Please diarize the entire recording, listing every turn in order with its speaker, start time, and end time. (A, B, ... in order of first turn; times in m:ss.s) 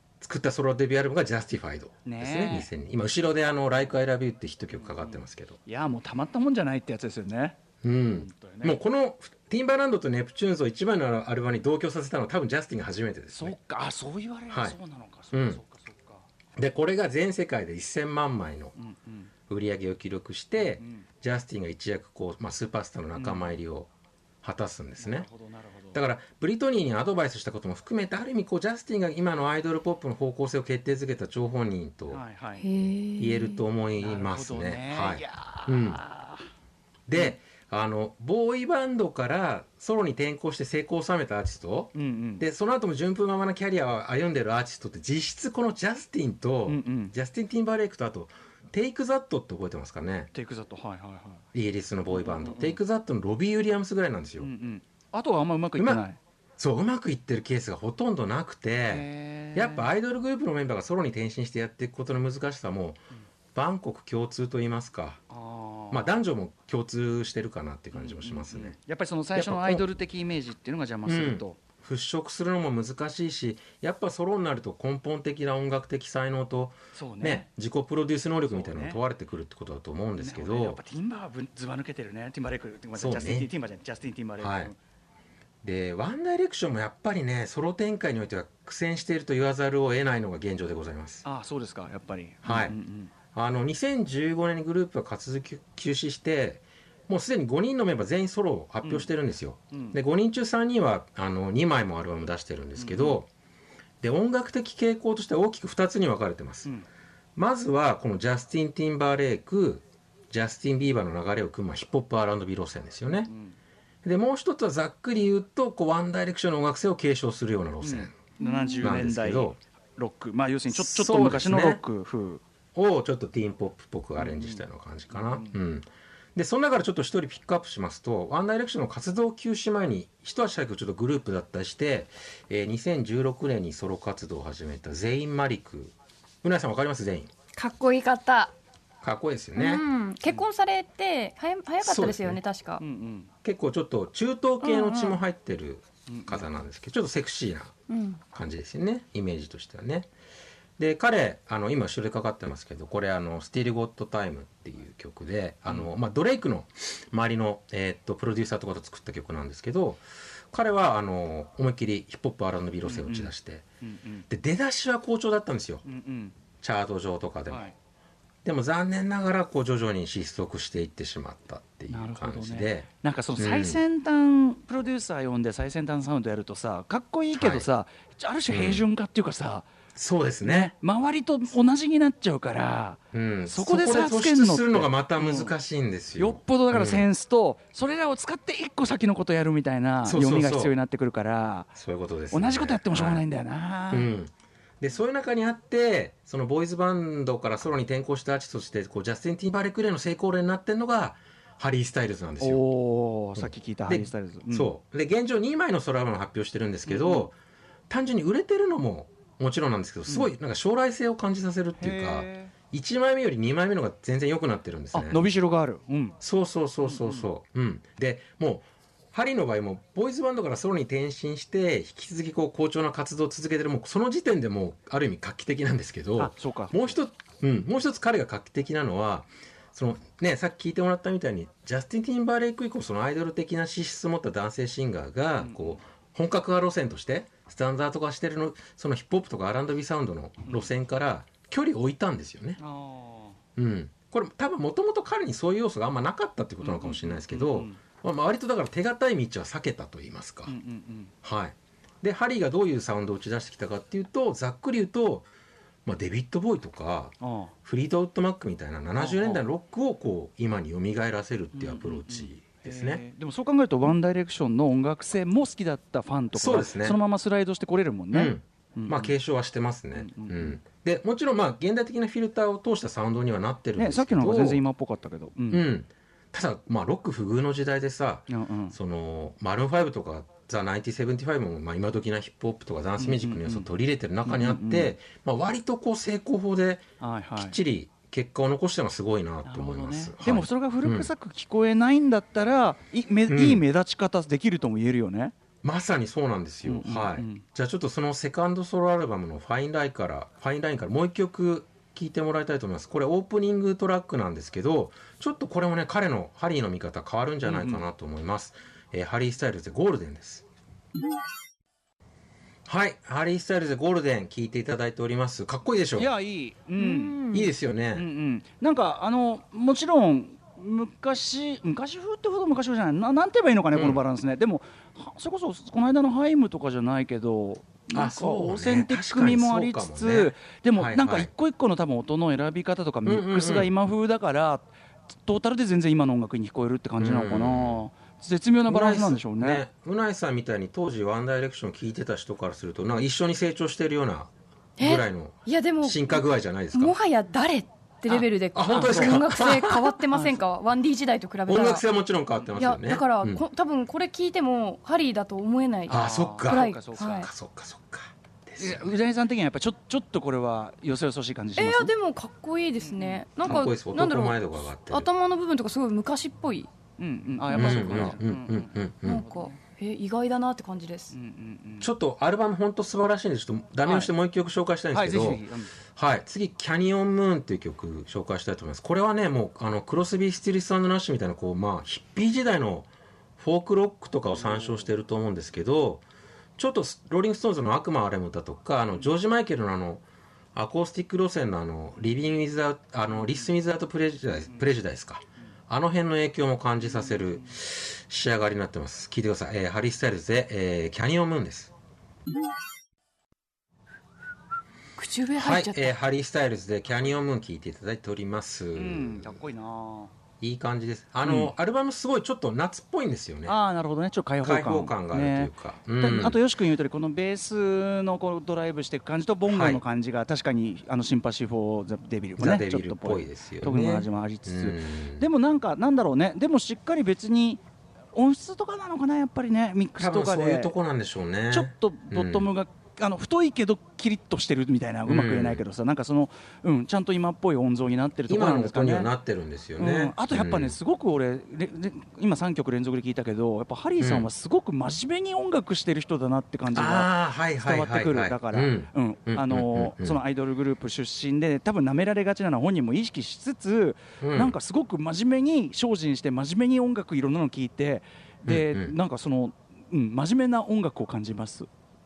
0:00.2-0:05.6 A
0:02.0-0:02.7 B
0:04.7-0:07.6 B
0:07.8-0:13.5 A
0:08.1-0:08.8 B
0:13.3-0:16.2 B
0:14.5-0:14.8 A
0:15.3-0:15.6 A
0:16.6-0:18.7 A
0:18.8-0:19.3 B
0:19.5-0:23.9 A
0:20.8-0:21.0 B
0:23.1-0:23.5 B
0:24.4-0:25.3 A
0:25.0-0:26.0 B
0:25.9-0:32.2 A
0:32.1-0:32.7 B
0:32.6-0:33.6 C
0:33.2-0:36.0 A
0:34.0-0:36.5 B
0:37.1-0:50.3 A
0:41.9-0:42.4 B
0:46.7-0:47.1 B
0:50.3-0:51.4 B
0:51.5-0:54.5 A
0:52.1-0:52.8 B
0:54.4-0:56.2 B
0:55.8-0:56.0 A
0:56.6-1:03.0 A
0:58.9-0:59.9 B
1:03.5-1:05.2 A
1:05.3-1:06.2 B
1:05.9-1:08.8 A
1:07.9-1:11.6 B
1:09.3-1:09.8 A
1:11.0-1:20.8 A
1:16.9-1:17.5 B
1:18.5-1:19.0 B
1:20.2-1:24.8 B
1:23.0-1:23.5 A
1:24.4-1:24.7 A
1:25.6-1:31.2 A
1:31.2-1:33.1 B
1:32.4-1:32.7 A
1:33.3-1:43.3 A
1:42.8-1:43.2 B
1:44.0-1:46.7 A
1:47.4-1:53.3 A
1:53.3-1:53.5 B
1:54.0-1:58.2 A
1:57.8-2:02.4 B
1:58.4-1:59.0 C
1:58.8-1:59.6 A
2:00.7-2:01.8 A
2:02.7-2:17.3 A
2:04.2-2:05.5 B
2:17.5-2:18.5 C
2:19.0-2:19.8 A
2:19.6-2:22.8 C
2:21.8-2:22.4 A
2:22.8-2:23.3 B
2:23.4-2:27.7 A
2:24.6-2:25.2 C
2:26.1-2:26.5 B
2:27.9-2:28.2 C
2:28.3-2:30.1 A
2:30.8-2:43.6 A
2:42.8-2:44.2 B
2:44.3-2:45.8 A
2:45.8-2:46.4 B
2:46.6-2:47.6 A
2:47.5-2:47.7 B
2:48.4-2:53.8 A
2:51.9-2:59.7 B
2:57.3-2:57.7 A
2:58.5-2:58.8 A
2:59.9-3:00.7 A
3:00.4-3:05.5 B
3:03.1-3:07.1 A
3:06.2-3:11.7 B
3:10.0-3:10.7 A
3:11.7-3:13.2 A
3:12.3-3:14.1 B
3:13.9-3:22.6 A
3:22.4-3:24.7 B
3:23.4-3:27.3 A
3:26.8-3:27.3 B
3:27.9-3:35.2 A
3:31.8-3:32.5 B
3:34.9-3:36.2 B
3:36.2-4:02.6 A
3:36.8-3:37.3 B
3:46.2-3:47.0 B
3:55.4-3:55.8 B
4:00.4-4:00.7 B
4:02.6-4:03.4 B
4:03.6-4:10.5 A
4:06.6-4:07.8 B
4:10.4-4:11.1 B
4:11.2-4:15.3 A
4:15.8-4:23.0 A
4:17.2-4:17.5 B
4:18.9-4:19.4 B
4:21.5-4:29.1 B
4:26.3-4:27.0 A
4:28.1-4:34.6 A
4:29.9-4:30.6 B
4:33.8-4:35.6 B
4:35.5-4:51.1 A
4:38.3-4:38.8 B
4:43.0-4:43.7 B
4:44.2-4:45.0 B
4:47.0-4:47.6 B
4:49.4-4:55.3 B
4:53.3-4:53.6 A
4:55.6-5:10.4 A
4:56.6-4:57.4 B
5:07.4-5:07.8 B
5:12.6-5:16.1 A
5:16.0-5:17.3 B
5:16.8-5:17.4 C
5:17.3-5:18.0 A
5:17.9-5:39.6 B
5:23.7-5:24.0 A
5:27.9-5:31.3 A
5:33.0-5:33.7 A
5:37.0-5:37.8 A
5:38.7-5:47.0 A
5:44.8-5:51.8 C
5:48.1-5:50.0 A
5:48.8-5:49.2 B
5:51.5-5:53.4 A
5:52.5-5:57.3 C
5:55.9-5:57.3 B
5:55.9-5:58.9 A
5:58.6-6:01.9 B
6:01.6-6:06.7 C
6:02.8-6:03.2 B
6:03.4-6:05.1 A
6:07.0-6:09.6 B
6:07.5-6:08.1 C
6:07.5-6:09.2 A
6:09.0-6:11.1 C
6:11.1-6:11.9 B
6:11.8-6:15.4 A
6:13.8-6:14.1 B
6:14.9-6:15.7 B
6:16.0-6:26.0 A
6:24.4-6:24.8 B
6:26.6-6:41.7 A
6:36.9-6:37.2 B
6:45.0-6:45.9 C
6:45.3-6:49.4 A
6:48.7-6:50.1 B
6:50.4-6:53.6 A
6:51.2-6:51.5 B
6:53.4-7:07.6 B
6:54.4-6:56.4 A
6:59.5-6:59.8 A
7:02.4-7:05.3 A
7:08.1-7:10.7 B
7:10.0-7:12.5 A
7:11.5-7:19.1 B
7:15.1-7:15.6 A
7:18.3-7:20.7 A
7:19.8-7:41.7 B
7:24.0-7:24.3 A
7:26.7-7:30.2 A
7:34.2-7:34.6 A
7:38.4-7:38.9 A